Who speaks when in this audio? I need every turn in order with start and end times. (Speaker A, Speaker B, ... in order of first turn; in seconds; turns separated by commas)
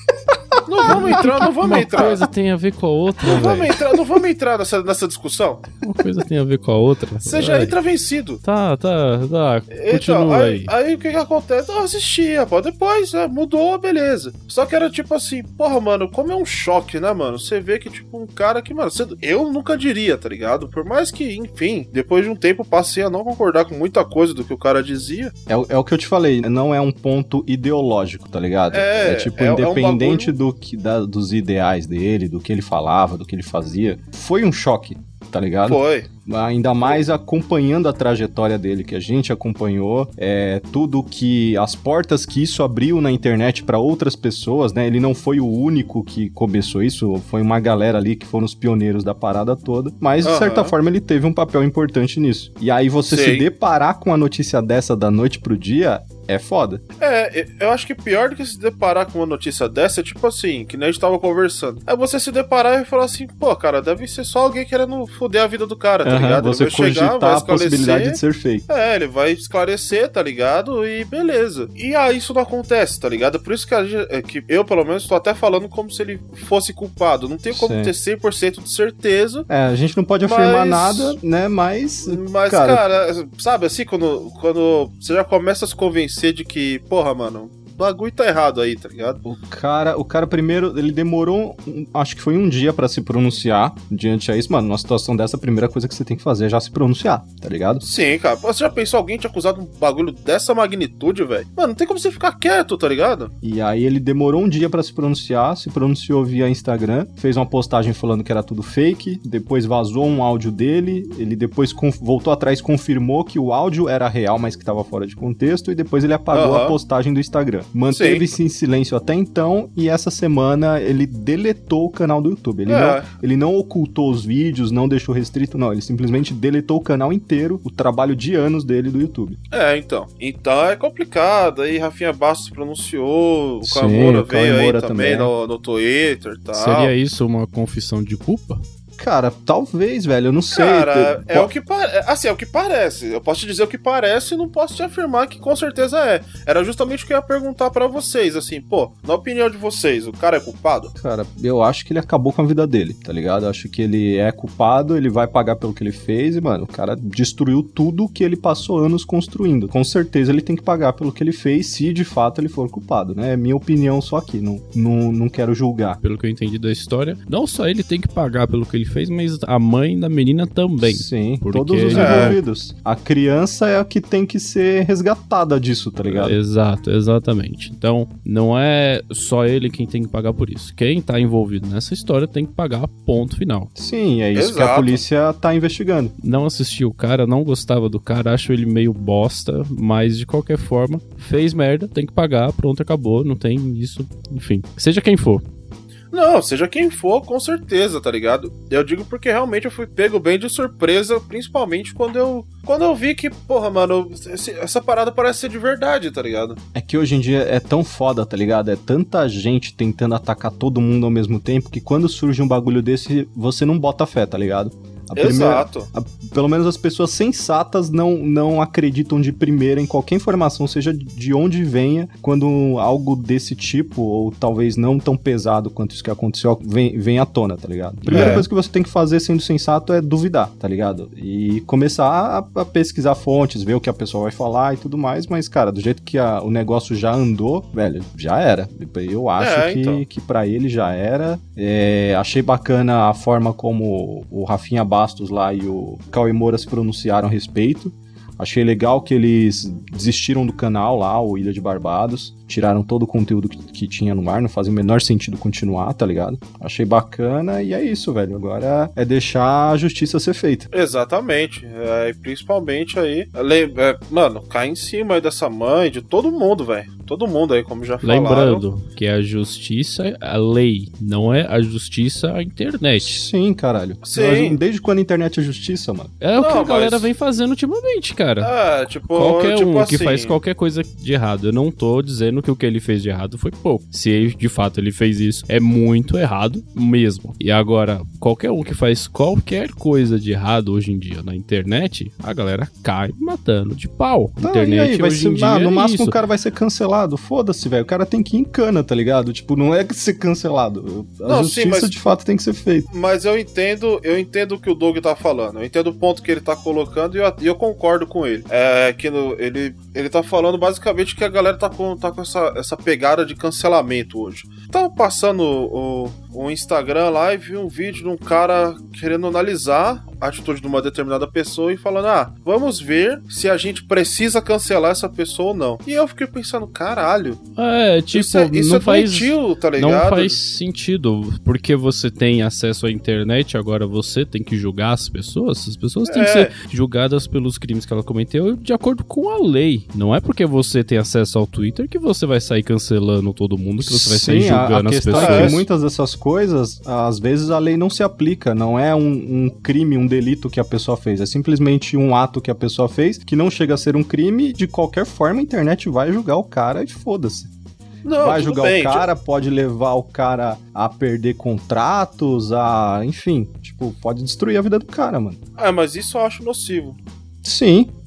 Speaker A: 0.6-2.3, Speaker B: 0.9-3.7, Speaker A: 3.2-5.6, Speaker B: 5.8-7.7, Speaker A: 7.2-8.4, Speaker B: 8.4-10.7, Speaker A: 9.7-25.3, Speaker C: 25.5-56.8, Speaker A: 28.7-30.3, Speaker A: 35.6-36.1, Speaker A: 50.2-50.7, Speaker A: 53.1-53.4, Speaker A: 57.0-79.5, Speaker C: 66.0-68.7, Speaker C: 77.5-77.9, Speaker C: 79.5-82.8, Speaker A: 80.2-81.2, Speaker A: 82.0-89.2, Speaker C: 89.2-97.8, Speaker A: 97.8-103.3, Speaker C: 103.4-129.4, Speaker A: 116.3-116.8, Speaker A: 117.9-118.2, Speaker A: 122.7-123.1, Speaker A: 129.5-136.9, Speaker C: 133.6-135.3, Speaker B: 136.5-138.6, Speaker C: 139.0-141.5, Speaker A: 140.5-150.9, Speaker C: 150.9-166.0, Speaker B: 166.0-172.4, Speaker C: 170.8-176.3, Speaker A: 171.9-172.4, Speaker B: 176.1-183.7, Speaker C: 183.8-186.1, Speaker A: 184.3-185.0, Speaker B: 186.2-195.4, Speaker A: 196.1-206.6, Speaker C: 206.7-260.7, Speaker A: 215.2-215.9, Speaker B: 228.1-228.4, Speaker A: 228.1-228.4, Speaker A: 239.4-240.0, Speaker A: 260.7-268.6, Speaker B: 268.0-273.2, Speaker C: 273.0-276.1, Speaker A: 274.0-274.6, Speaker B: 276.2-278.5, Speaker A: 276.4-277.1, Speaker A: 278.4-280.4, Speaker B: 279.1-296.1, Speaker C: 294.4-302.9, Speaker A: 301.2-301.9, Speaker A: 302.9-327.4, Speaker B: 327.6-345.6, Speaker A: 328.1-330.4, Speaker A: 336.1-336.5, Speaker C: 343.8-357.5, Speaker A: 345.1-345.6, Speaker A: 358.0-359.1, Speaker C: 358.2-365.4, Speaker A: 365.6-367.0, Speaker C: 367.4-367.9